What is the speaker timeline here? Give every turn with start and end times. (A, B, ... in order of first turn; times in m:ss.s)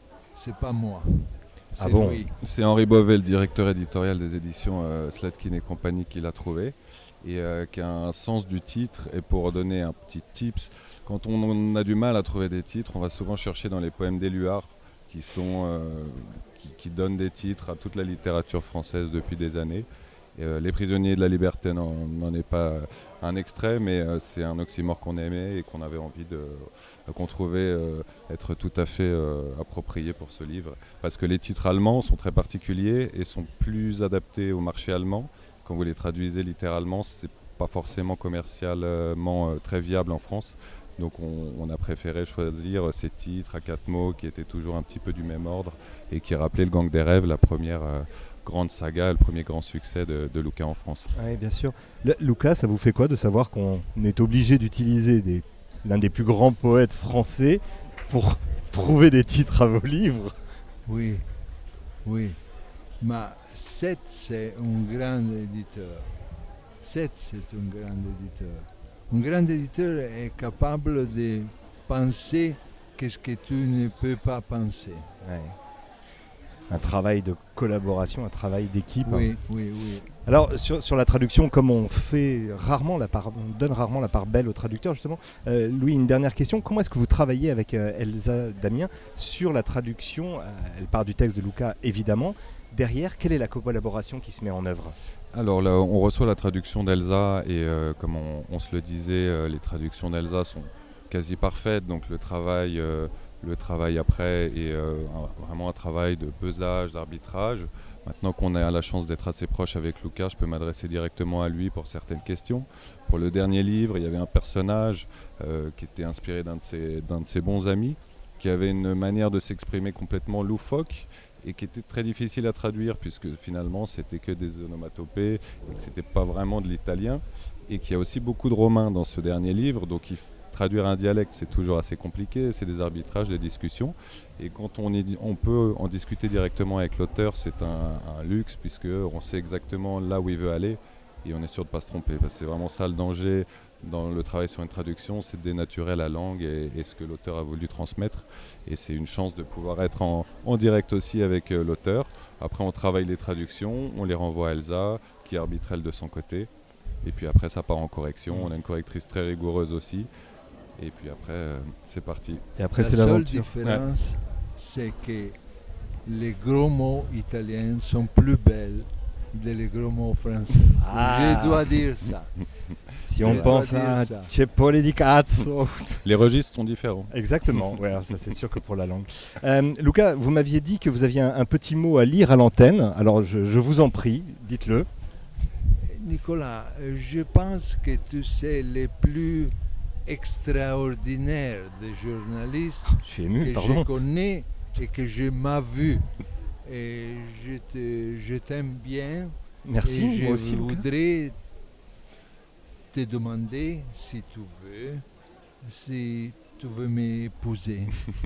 0:00.3-0:02.3 A
0:01.8-0:02.2 B
0:02.4-0:51.1 C
0:51.1-1:00.3 B
1:00.8-1:01.3 A
1:02.0-1:02.4 A
1:03.0-1:06.1 A
1:06.8-1:15.1 A
1:15.2-1:15.5 B
1:16.7-1:19.3 B
1:19.0-1:20.2 A
1:20.2-1:35.0 B
1:35.3-2:36.5 C
2:37.0-2:40.1 C
2:40.8-2:42.4 C
2:42.6-2:43.5 B
2:42.8-2:45.4 A
2:46.0-2:52.4 A
2:50.8-2:51.8 B
2:53.0-2:56.1 B
2:53.1-2:54.3 A
2:53.2-2:53.5 C
2:56.0-2:57.1 C
2:57.1-3:04.9 B
3:05.8-3:09.5 A
3:10.0-3:16.1 A
3:13.0-3:13.9 B
3:16.6-3:21.4 A
3:19.6-3:20.8 B
3:22.9-3:25.0 A
3:25.6-3:28.0 A